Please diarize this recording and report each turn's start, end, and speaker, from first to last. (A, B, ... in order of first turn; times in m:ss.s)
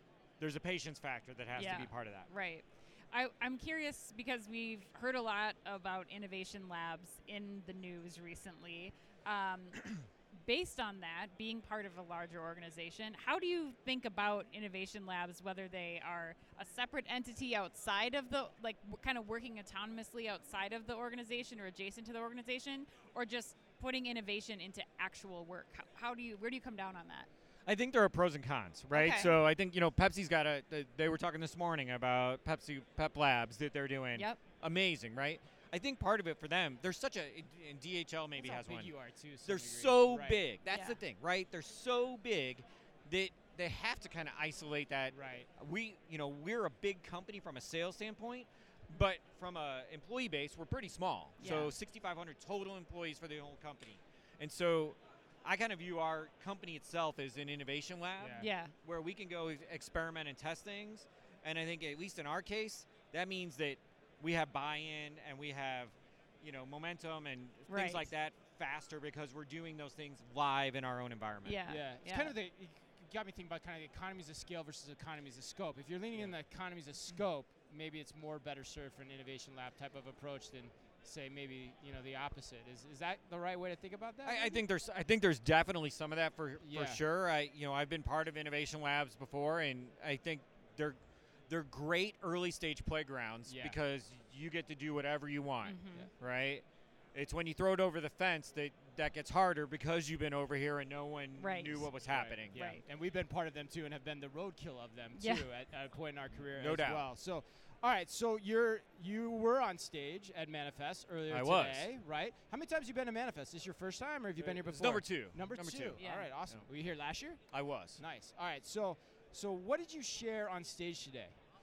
0:00.4-0:02.3 A
0:01.5-0:27.3 B
0:27.7-0:38.9 A
0:28.9-0:29.4 B
0:34.2-0:34.4 B
0:38.4-0:40.4 C
0:39.5-1:11.6 A
0:40.7-0:41.0 B
0:45.1-0:45.5 C
0:51.4-0:51.7 B
0:58.2-0:58.5 C
0:58.4-0:58.7 B
1:07.7-1:08.1 B
1:11.4-1:12.4 B
1:11.7-1:24.6 C
1:24.3-1:31.0 A
1:26.6-1:27.0 C
1:31.5-1:42.6 A
1:33.5-1:33.8 C
1:35.6-1:36.1 B
1:41.4-1:41.9 B
1:42.0-1:57.4 C
1:42.5-1:42.8 B
1:45.2-1:45.5 B
1:46.6-1:47.1 A
1:51.3-1:51.9 A
1:54.7-1:56.0 A
1:56.0-1:56.3 B
1:57.5-1:58.0 A
1:58.0-2:01.4 C